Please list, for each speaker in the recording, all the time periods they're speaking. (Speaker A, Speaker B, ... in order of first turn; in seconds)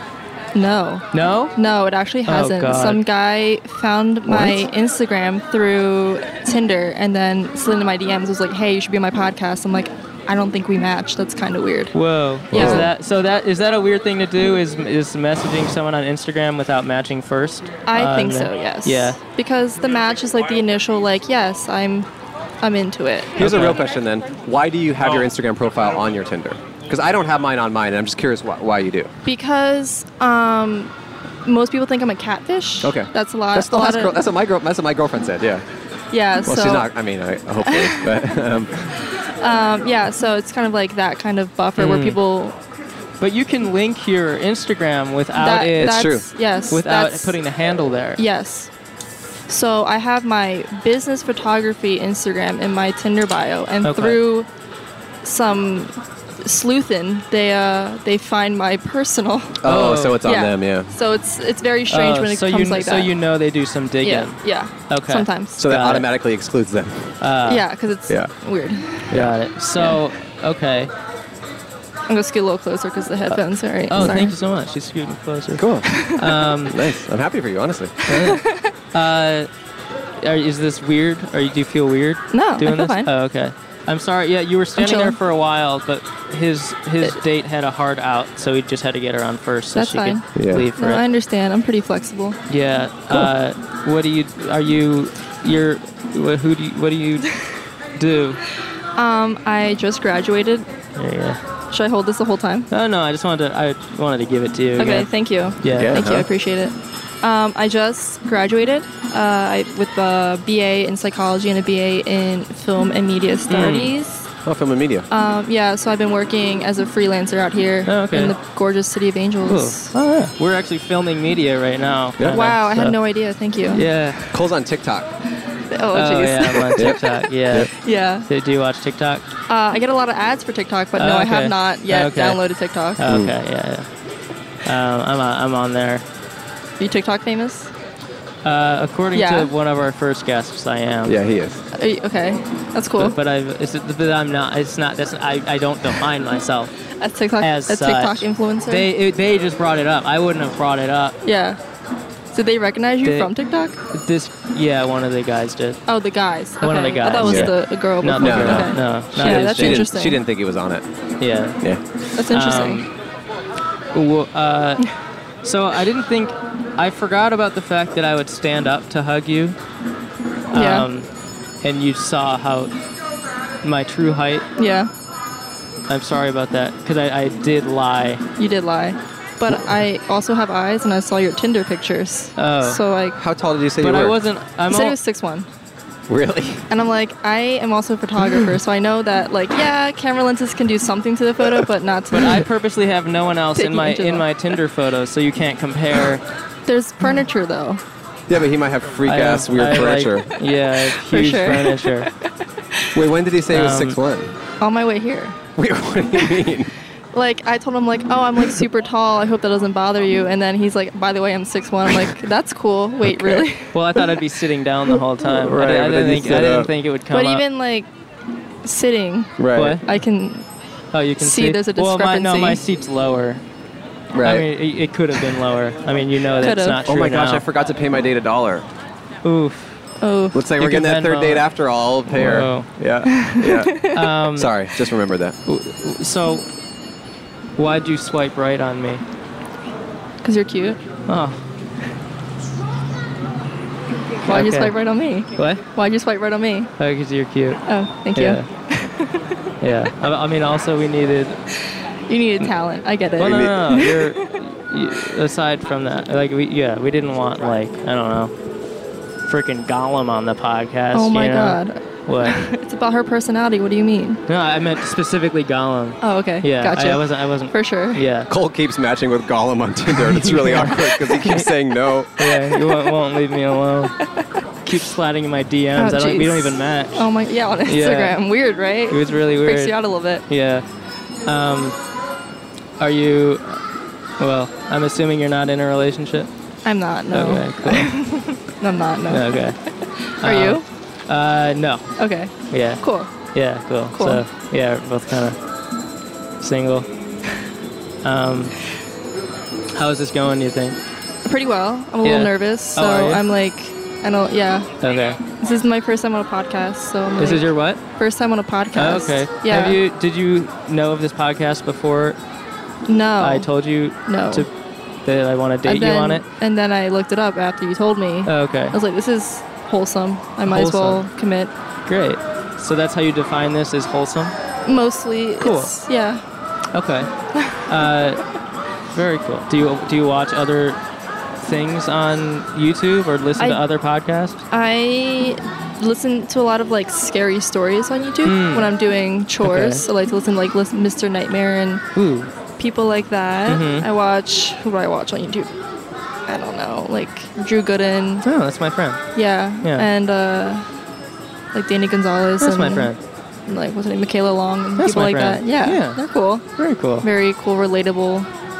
Speaker A: 0.5-11.9, 12.5-12.8, 17.9-22.1, 22.6-23.5, 29.2-30.9, 31.4-34.2, 36.1-36.9, 37.6-38.3, 39.4-42.6, 45.4-47.4, 48.2-48.7, 49.5-54.5, 55.2-59.6, 60.2-63.1, 64.0-65.6, 67.5-69.2, 72.1-74.4, 75.9-76.3, 78.1-78.7, 82.3-83.1, 84.8-85.2, 89.8-92.4, 99.0-100.7, 101.7-102.7, 104.8-114.3, 115.1-120.0, 122.3-123.8, 125.7-127.0, 127.8-128.3, 129.5-133.0, 136.8-137.7, 139.1-139.5, 141.8-143.2, 147.0-148.9, 151.2-151.6, 152.3-153.8, 155.9-160.2, 162.2-162.9, 170.5-170.9, 174.6-174.9, 178.4-183.2, 184.7-185.5, 186.7-192.4, 193.6-194.3, 196.7-197.8, 200.9-202.1, 204.6-205.4, 206.2-206.4, 207.1-213.8, 217.1-217.9, 218.6-220.5, 221.2-222.6, 226.4-226.8, 230.0-230.4, 233.1-234.0, 240.2-240.8, 244.2-246.7, 247.7-249.2, 252.1-254.3, 260.9-264.2, 266.0-268.1, 275.8-280.2, 286.6-289.7, 290.2-290.6, 292.0-293.3, 293.9-294.2, 301.2-304.7, 305.4-309.8, 312.9-313.5, 314.1-314.5, 315.6-321.5, 324.6-326.2, 333.4-333.6, 334.5-341.8, 342.6-345.5, 346.3-348.3, 349.1-350.7, 351.5-352.9, 353.5-356.4, 357.0-358.3
Speaker B: 1.1-1.6, 2.2-3.0, 11.9-19.2, 23.4-23.8, 41.8-42.2, 43.2-48.2, 53.8-54.2, 59.6-60.2, 61.9-66.1, 67.2-67.7, 69.1-70.9, 73.9-76.8, 78.1-79.5, 80.2-91.0, 92.5-97.3, 98.0-98.4, 101.0-101.4, 102.7-105.1, 105.6-106.2, 113.5-113.9, 117.8-118.4, 119.5-123.0, 123.7-124.4, 125.9-129.3, 131.0-132.4, 133.0-133.9, 134.7-136.1, 138.4-141.2, 143.0-146.7, 147.4-151.2, 153.0-153.3, 153.9-155.8, 156.6-159.9, 161.2-161.6, 162.3-162.9, 163.9-164.9, 165.4-169.6, 170.5-171.1, 171.6-172.7, 173.6-174.5, 175.9-178.2, 182.4-182.8, 183.8-185.0, 192.1-196.2, 199.1-202.1, 203.5-204.0, 213.7-217.4, 219.6-219.8, 220.9-223.4, 224.2-227.4, 229.2-229.8, 230.6-231.5, 232.1-232.7, 233.9-234.5, 235.5-236.5, 237.6-239.0, 241.1-241.4, 244.3-244.8, 245.3-245.6, 246.8-247.6, 248.1-248.5, 249.6-251.4, 253.2-258.3, 259.3-262.4, 264.3-268.3, 270.1-271.5, 272.2-273.9, 274.6-277.1, 277.7-278.2, 278.9-280.6, 281.2-281.8, 282.8-283.6, 284.2-286.3, 287.1-287.9, 289.1-289.6, 290.2-295.4, 296.4-296.9, 298.0-298.6, 299.8-300.8, 302.0-303.2, 304.8-305.2, 307.2-307.8, 308.7-312.2, 313.2-314.5, 315.1-316.2, 318.3-318.8, 320.5-321.1, 321.9-324.4, 325.4-325.8, 326.7-327.1, 327.7-328.3, 328.9-330.8, 331.4-334.4, 338.2-338.7, 339.4-339.9, 341.9-342.3, 343.5-343.9, 348.2-349.0, 349.6-349.9, 352.4-353.0, 354.8-356.0, 356.6-357.1
Speaker C: 4.3-4.7, 12.5-12.9, 23.4-29.1, 32.8-35.6, 36.5-38.9, 45.8-46.3, 59.6-60.9, 65.6-67.2, 68.1-68.3, 75.6-75.9, 76.7-78.0, 90.3-90.7, 105.7-106.3, 114.4-115.1, 124.3-125.1, 133.1-133.3, 141.1-141.6, 157.2-157.5, 158.2-160.8, 183.2-184.2, 186.1-186.7, 198.3-200.3, 202.9-204.3, 205.6-206.7, 213.1-213.4, 215.2-216.7, 219.4-219.8, 224.1-224.5, 226.8-228.7, 230.3-233.8, 234.3-235.4, 253.2-253.6, 268.3-272.2